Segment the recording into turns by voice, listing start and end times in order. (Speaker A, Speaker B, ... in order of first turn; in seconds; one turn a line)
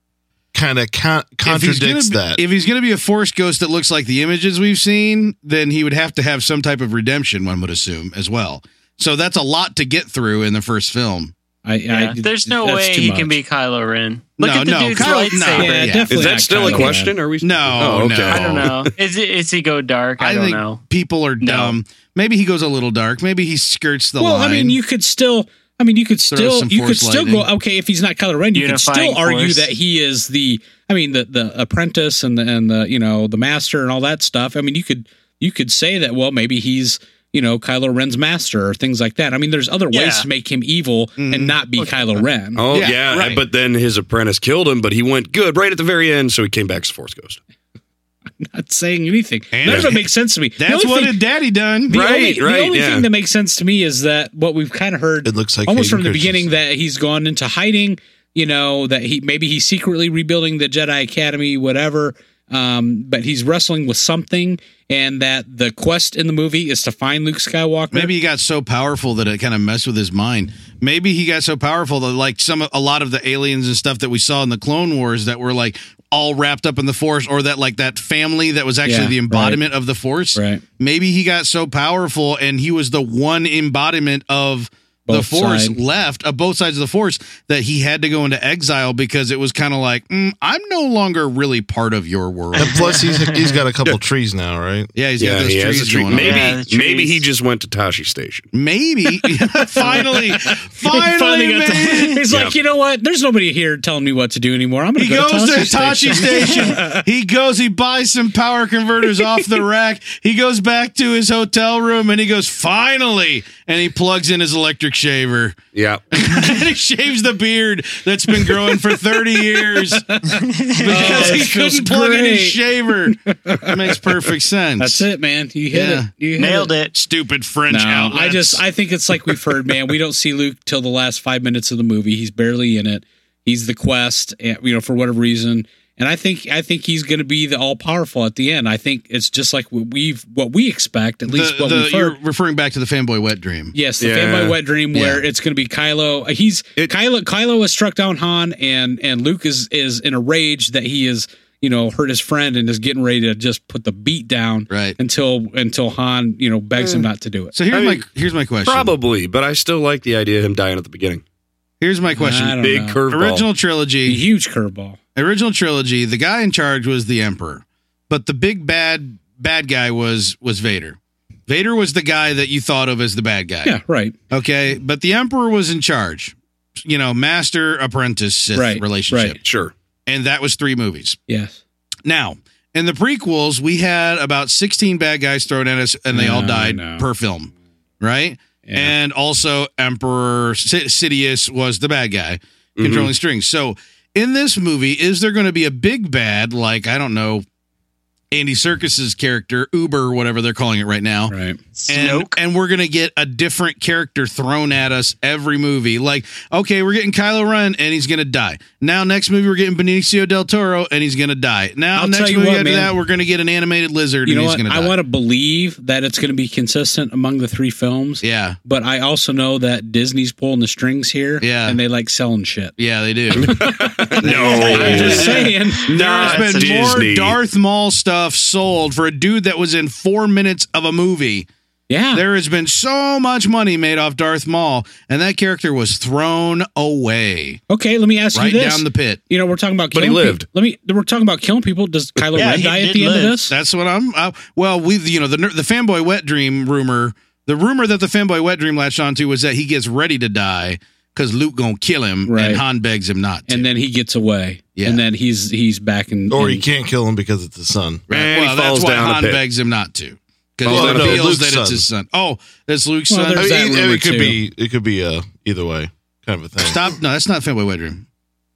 Speaker A: 0.5-2.4
Speaker B: 1.4-11.3
Speaker C: 11.6-13.4
Speaker D: 11.9-15.9
Speaker B: 14.4-18.7
Speaker C: 15.3-17.2
Speaker E: 16.1-18.9
Speaker D: 18.3-20.8
Speaker B: 20.2-24.8
Speaker D: 21.4-21.8
Speaker C: 24.2-42.7
Speaker B: 26.3-27.5
Speaker D: 28.5-29.7
Speaker D: 39.9-40.3
Speaker B: 41.2-41.6
Speaker E: 42.6-47.4
Speaker B: 42.7-43.4
Speaker C: 48.4-51.2
Speaker B: 49.5-52.0
Speaker E: 49.6-50.0
Speaker C: 51.9-68.1
Speaker E: 51.9-53.1
Speaker A: 55.2-56.5
Speaker B: 67.9-93.0
Speaker C: 78.8-79.6
Speaker C: 80.3-80.6
Speaker C: 85.1-85.8
Speaker A: 92.6-94.9
Speaker D: 92.6-93.6
Speaker B: 95.0-96.6
Speaker E: 95.2-98.5
Speaker D: 96.1-97.2
Speaker B: 98.5-102.2
Speaker C: 99.6-107.0
Speaker E: 102.3-102.5
Speaker B: 105.0-115.6
Speaker E: 115.7-116.0
Speaker B: 116.1-120.1
Speaker C: 118.4-124.0
Speaker D: 120.4-121.5
Speaker B: 120.8-125.1
Speaker C: 124.8-126.7
Speaker B: 125.7-126.1
Speaker D: 126.4-126.9
Speaker B: 126.9-128.6
Speaker C: 127.7-142.2
Speaker B: 141.3-143.7
Speaker C: 143.7-157.6
Speaker E: 144.0-144.6
Speaker B: 144.9-145.2
Speaker B: 154.7-155.0
Speaker E: 156.8-157.1
Speaker B: 157.5-158.9
Speaker E: 157.7-158.1
Speaker E: 158.7-161.2
Speaker B: 161.8-164.2
Speaker C: 162.1-163.0
Speaker E: 162.6-163.4
Speaker C: 164.1-165.0
Speaker B: 165.2-173.7
Speaker C: 173.6-174.1
Speaker B: 174.3-179.4
Speaker C: 178.5-179.4
Speaker E: 179.4-179.7
Speaker B: 180.1-181.2
Speaker C: 181.3-181.6
Speaker B: 182.1-197.4
Speaker C: 186.1-187.1
Speaker C: 188.6-188.9
Speaker E: 192.8-193.1
Speaker B: 198.3-201.3
Speaker C: 201.3-201.6
Speaker D: 201.8-202.4
Speaker B: 201.9-214.9
Speaker C: 211.9-213.0
Speaker C: 214.2-222.7
Speaker B: 218.2-218.6
Speaker B: 221.4-221.8
Speaker B: 222.8-223.7
Speaker E: 223.3-227.4
Speaker C: 223.5-225.9
Speaker D: 224.2-227.1
Speaker B: 224.2-231.5
Speaker C: 231.9-232.2
Speaker B: 232.1-237.6
Speaker C: 237.7-243.6
Speaker B: 238.3-239.2
Speaker E: 239.9-240.4
Speaker D: 242.3-243.4
Speaker B: 243.5-253.7
Speaker C: 252.3-252.6
Speaker C: 253.5-256.6
Speaker B: 254.8-255.0
Speaker A: 256.3-258.1
Speaker B: 258.1-263.5
Speaker E: 258.1-259.4
Speaker E: 260.6-261.3
Speaker A: 260.6-261.9
Speaker C: 263.1-264.4
Speaker A: 263.4-267.0
Speaker B: 266.6-268.0